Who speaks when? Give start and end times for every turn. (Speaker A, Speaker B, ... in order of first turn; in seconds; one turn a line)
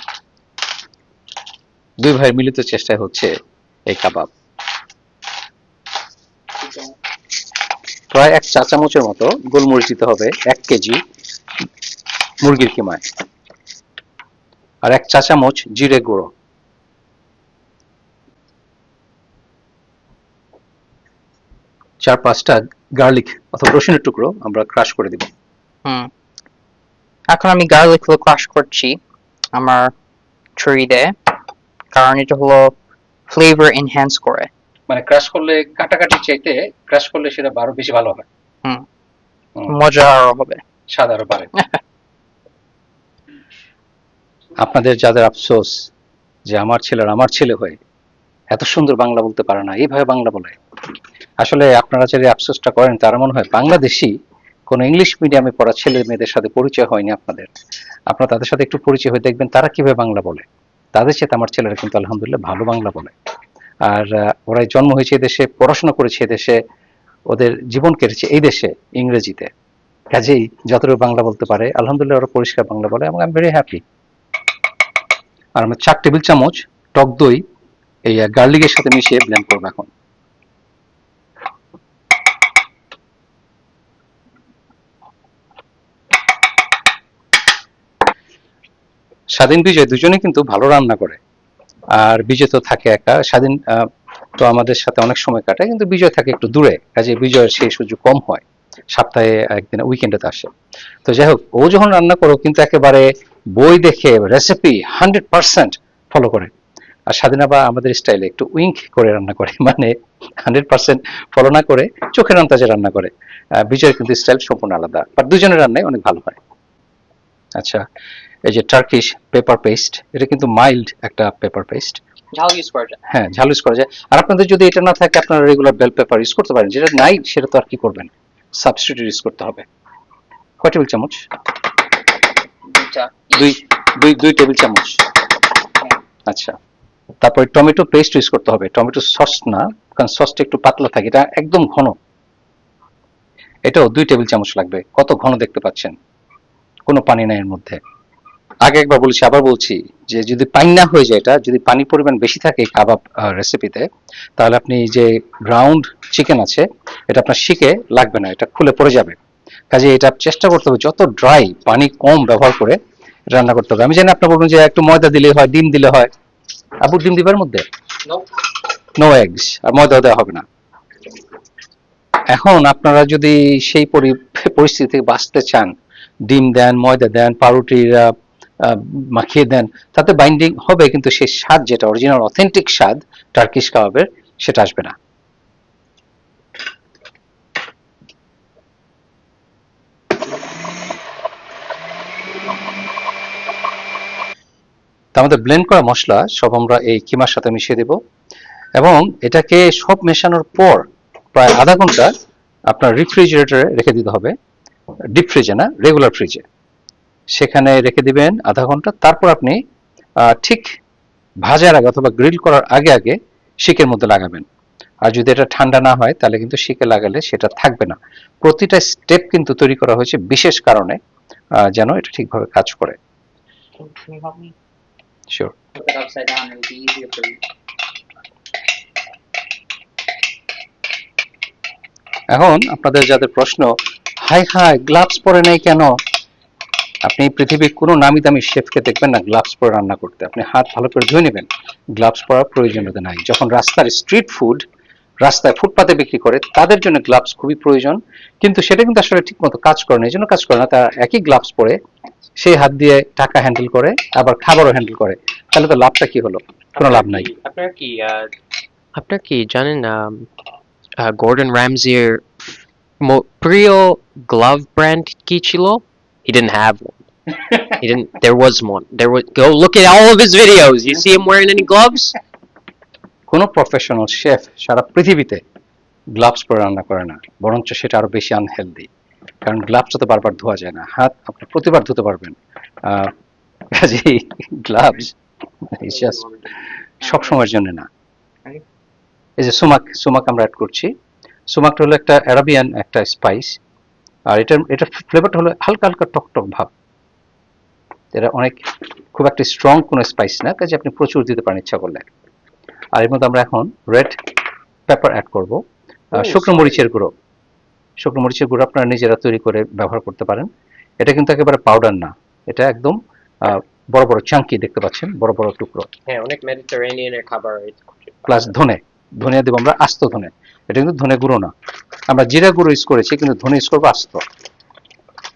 Speaker A: 2.0-3.3
Speaker A: 3.9-4.3
Speaker A: 8.1-11.0
Speaker A: 12.4-13.1
Speaker A: 14.8-16.3
Speaker A: 22.0-25.3
Speaker B: 25.9-26.1
Speaker B: 27.3-29.0
Speaker B: 29.5-29.9
Speaker B: 30.6-31.2
Speaker B: 31.9-32.8
Speaker B: 33.3-34.5
Speaker A: 34.9-38.2
Speaker B: 39.7-40.6
Speaker A: 40.9-41.5
Speaker A: 44.6-45.9
Speaker A: 46.5-47.8
Speaker A: 48.5-50.6
Speaker A: 51.4-54.1
Speaker A: 54.7-57.5
Speaker A: 58.1-63.1
Speaker A: 63.9-66.6
Speaker A: 67.3-69.5
Speaker A: 70.1-73.8
Speaker A: 75.6-77.4
Speaker A: 78.1-79.9
Speaker A: 89.4-91.2
Speaker A: 92.0-100.5
Speaker A: 101.1-106.5
Speaker A: 107.1-116.4
Speaker A: 117.6-117.8
Speaker A: 118.5-122.0
Speaker B: 122.3-123.0
Speaker A: 123.1-129.7
Speaker A: 130.6-131.2
Speaker B: 132.7-133.5
Speaker A: 133.3-135.0
Speaker A: 136.3-136.6
Speaker A: 137.2-142.0
Speaker A: 143.7-146.0
Speaker A: 146.9-147.8
Speaker A: 148.6-153.9
Speaker A: 154.4-159.2
Speaker A: 159.7-162.8
Speaker A: 163.3-166.1
Speaker A: 166.8-167.7
Speaker A: 169.0-170.4
Speaker A: 172.3-175.7
Speaker A: 176.3-184.9
Speaker A: 195.2-198.0
Speaker A: 198.8-202.1
Speaker A: 202.7-204.3
Speaker A: 205.2-206.4
Speaker A: 207.3-209.6
Speaker A: 210.2-210.7
Speaker A: 211.4-214.4
Speaker A: 215.1-221.0
Speaker A: 221.7-223.0
Speaker B: 223.8-224.6
Speaker B: 225.8-227.4
Speaker A: 232.3-235.9
Speaker A: 237.1-244.7
Speaker A: 245.2-251.8
Speaker A: 252.4-257.3
Speaker C: 258.9-260.3
Speaker C: 261.0-272.1
Speaker A: 273.3-275.4
Speaker A: 276.1-278.9
Speaker A: 279.4-283.1
Speaker A: 283.7-285.1
Speaker A: 285.6-286.2
Speaker A: 287.0-287.9
Speaker B: 287.0-287.4
Speaker A: 289.4-290.9
Speaker A: 291.5-293.6
Speaker A: 294.3-296.7
Speaker A: 298.1-302.1
Speaker A: 302.9-304.4
Speaker A: 304.9-307.1
Speaker A: 308.0-310.5
Speaker A: 311.0-315.9
Speaker C: 316.2-317.7
Speaker A: 318.2-321.5
Speaker A: 322.1-324.2